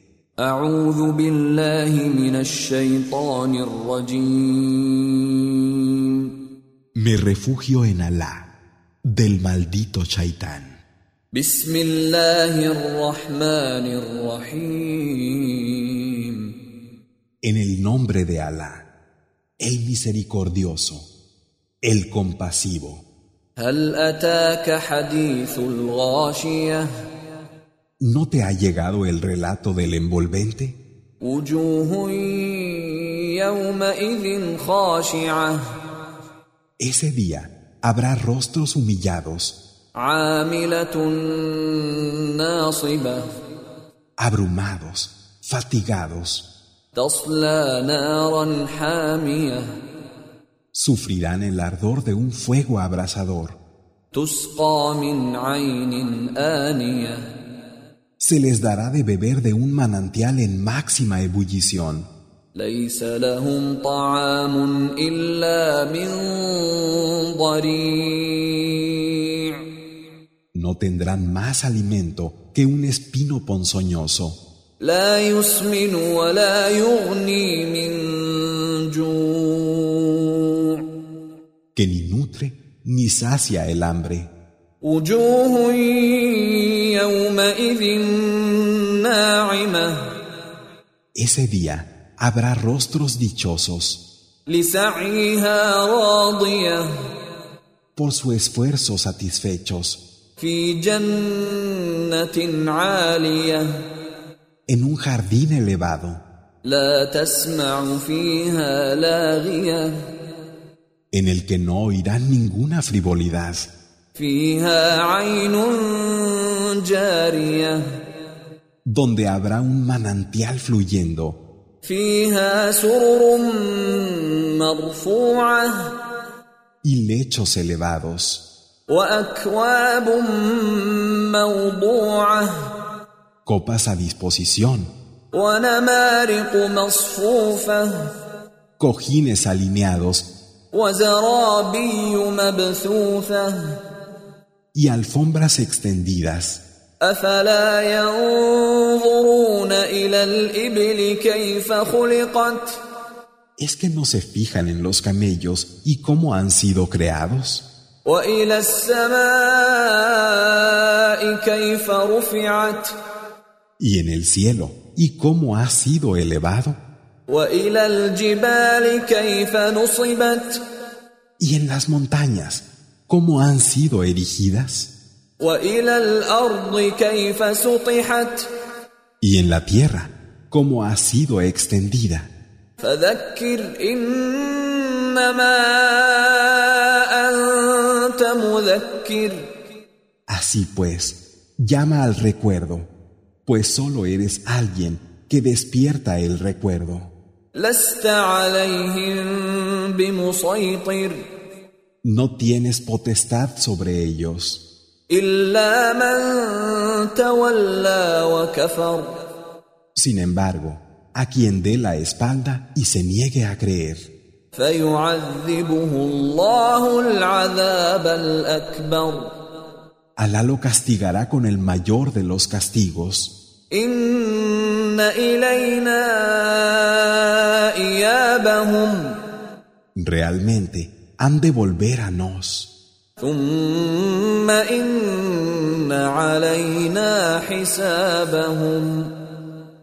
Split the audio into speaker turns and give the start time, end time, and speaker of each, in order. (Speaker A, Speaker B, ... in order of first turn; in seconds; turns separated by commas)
Speaker A: 0.4-6.2, Speaker B: 7.0-8.5, Speaker B: 9.1-10.8, Speaker A: 11.3-16.5, Speaker B: 17.4-18.8, Speaker B: 19.6-21.1, Speaker B: 21.8-23.0, Speaker A: 23.6-26.9, Speaker B: 28.0-30.8, Speaker A: 31.2-35.6, Speaker B: 36.8-39.6, Speaker A: 39.9-43.2, Speaker B: 44.2-46.5, Speaker A: 46.9-49.7, Speaker B: 50.7-53.6, Speaker A: 54.1-57.2, Speaker B: 58.2-62.1, Speaker A: 62.5-69.5, Speaker B: 70.5-74.4, Speaker A: 74.8-80.8, Speaker B: 81.7-84.3, Speaker A: 84.8-90.1, Speaker B: 91.1-94.0, Speaker A: 94.5-96.9, Speaker B: 98.0-100.0, Speaker A: 100.4-103.7, Speaker B: 104.7-106.2, Speaker A: 106.6-110.0, Speaker B: 111.1-113.7, Speaker A: 114.1-117.8, Speaker B: 118.8-121.4, Speaker A: 121.8-125.9, Speaker B: 126.8-128.4, Speaker A: 128.9-132.5, Speaker B: 133.4-134.9, Speaker A: 135.3-138.1, Speaker B: 138.8-140.3, Speaker A: 140.7-143.8, Speaker B: 144.7-146.6, Speaker A: 147.0-152.8, Speaker B: 153.6-157.7, Speaker A: 158.0-162.9, Speaker B: 163.8-166.8, Speaker A: 167.3-170.6, Speaker B: 171.4-174.9, Speaker A: 175.4-178.5, Speaker B: 179.2-182.3, Speaker A: 182.8-189.4, Speaker B: 190.3-192.9, Speaker B: 193.4-197.1, Speaker A: 197.5-201.2, Speaker B: 202.0-204.6, Speaker A: 205.1-209.2, Speaker B: 209.9-214.1, Speaker A: 214.5-219.4, Speaker B: 220.2-223.3, Speaker A: 223.7-229.2, Speaker B: 229.9-232.7, Speaker A: 233.2-239.1